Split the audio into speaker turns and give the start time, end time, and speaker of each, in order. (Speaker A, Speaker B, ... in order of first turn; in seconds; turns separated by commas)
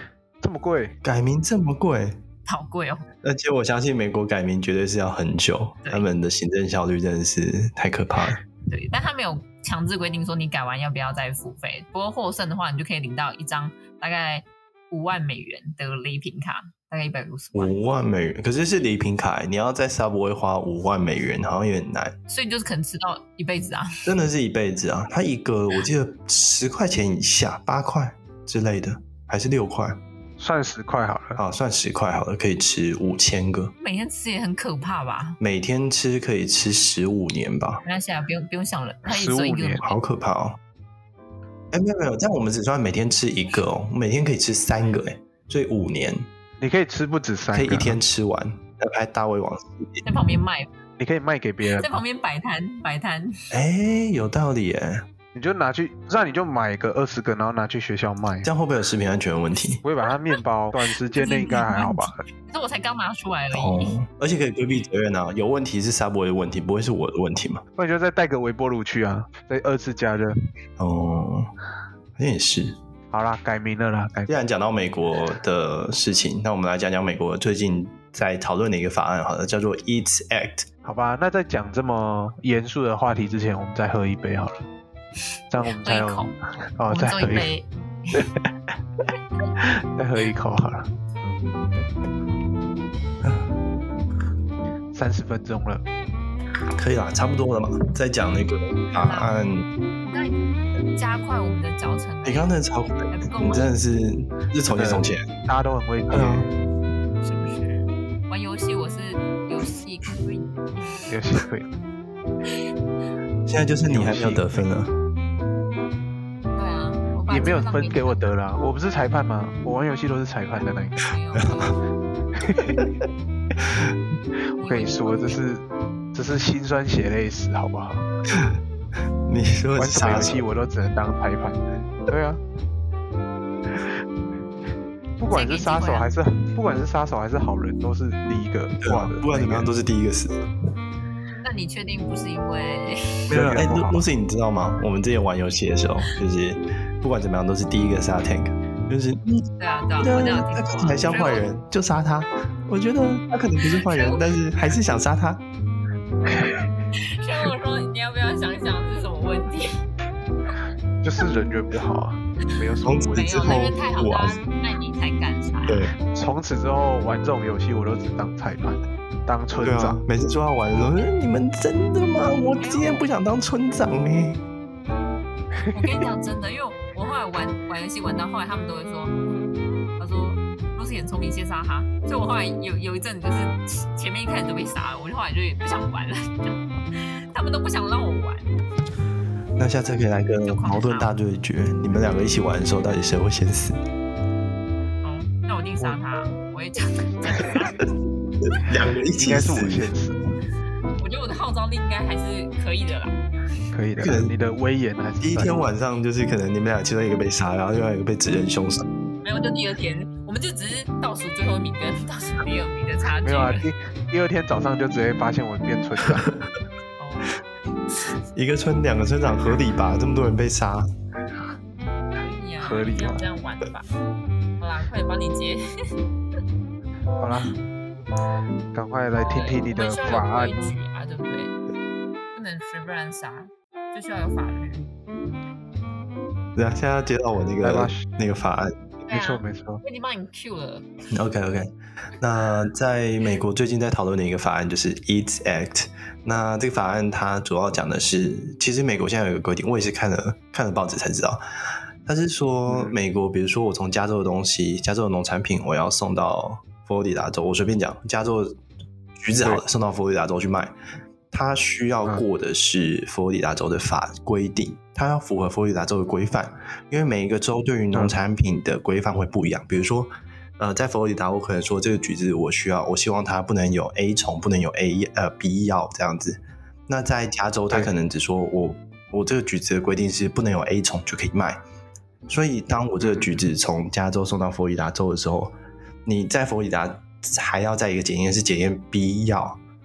Speaker A: 0.4-0.9, Speaker B: 1.0-2.2, Speaker C: 2.5-3.1, Speaker B: 3.2-8.4, Speaker C: 8.7-17.8, Speaker B: 17.5-22.1, Speaker C: 22.3-24.1, Speaker B: 24.0-30.0, Speaker A: 30.4-31.4, Speaker B: 31.4-33.7, Speaker C: 33.8-35.4, Speaker B: 35.4-37.8, Speaker C: 37.8-39.9, Speaker A: 39.1-39.8, Speaker B: 39.8-40.6, Speaker B: 41.7-46.3, Speaker A: 46.6-48.0, Speaker B: 47.5-50.0, Speaker C: 50.0-50.7, Speaker A: 51.0-52.0, Speaker C: 51.7-53.5, Speaker B: 53.5-55.1, Speaker A: 55.3-58.5, Speaker B: 58.4-59.8, Speaker A: 59.8-62.2, Speaker C: 61.1-63.9, Speaker B: 63.5-67.6, Speaker A: 67.8-70.3, Speaker B: 70.8-71.5, Speaker B: 72.2-72.8, Speaker A: 73.1-74.3, Speaker B: 74.3-80.7, Speaker A: 80.8-84.7, Speaker A: 85.5-87.5, Speaker C: 85.8-86.3, Speaker C: 86.9-88.3, Speaker A: 89.6-90.9, Speaker A: 94.9-95.8, Speaker B: 96.8-99.7, Speaker C: 98.9-99.5, Speaker C: 100.0-102.5, Speaker B: 102.2-105.3, Speaker C: 103.1-103.7, Speaker A: 104.7-106.5, Speaker B: 106.1-106.5, Speaker C: 107.2-111.1, Speaker A: 111.1-111.7, Speaker B: 113.5-114.9, Speaker A: 113.9-114.5, Speaker C: 116.5-118.2, Speaker A: 117.3-121.0, Speaker C: 121.0-121.8, Speaker B: 121.4-121.7, Speaker A: 122.4-122.8, Speaker C: 124.6-125.4, Speaker A: 124.6-125.6, Speaker A: 126.1-128.0, Speaker B: 128.3-128.6, Speaker B: 129.3-130.4, Speaker A: 129.8-132.4, Speaker A: 133.7-134.0, Speaker A: 135.2-139.7, Speaker C: 135.3-136.1, Speaker B: 138.8-140.4, Speaker C: 141.4-143.3, Speaker B: 143.3-155.4, Speaker A: 143.3-144.0, Speaker C: 149.6-151.4, Speaker C: 153.7-154.3, Speaker A: 156.3-156.6, Speaker C: 156.9-159.8, Speaker A: 161.0-163.4, Speaker B: 162.8-164.4, Speaker C: 163.1-165.9, Speaker B: 165.7-165.9, Speaker A: 166.1-170.0, Speaker B: 169.6-174.4, Speaker C: 172.5-173.1, Speaker C: 175.7-179.1, Speaker C: 180.0-188.5, Speaker B: 189.6-193.8, Speaker C: 190.4-191.1, Speaker C: 195.0-197.8, Speaker B: 198.4-199.9, Speaker A: 199.1-200.2, Speaker C: 201.0-203.2, Speaker A: 203.7-205.7, Speaker B: 204.0-204.3, Speaker B: 205.2-208.8, Speaker C: 209.2-213.7, Speaker A: 213.2-216.3, Speaker C: 217.0-217.4, Speaker B: 218.3-220.9, Speaker C: 222.1-223.9, Speaker A: 222.6-223.2, Speaker C: 224.6-225.6, Speaker A: 227.2-227.5, Speaker A: 228.7-230.5, Speaker C: 229.2-231.5, Speaker C: 232.3-234.9, Speaker B: 236.5-238.7, Speaker A: 237.6-238.1, Speaker C: 239.1-240.9, Speaker A: 239.1-239.8, Speaker B: 241.1-251.4, Speaker B: 252.0-258.6, Speaker A: 252.7-252.9, Speaker B: 259.1-260.8, Speaker B: 261.3-281.6, Speaker B: 282.3-285.5, Speaker B: 286.1-289.6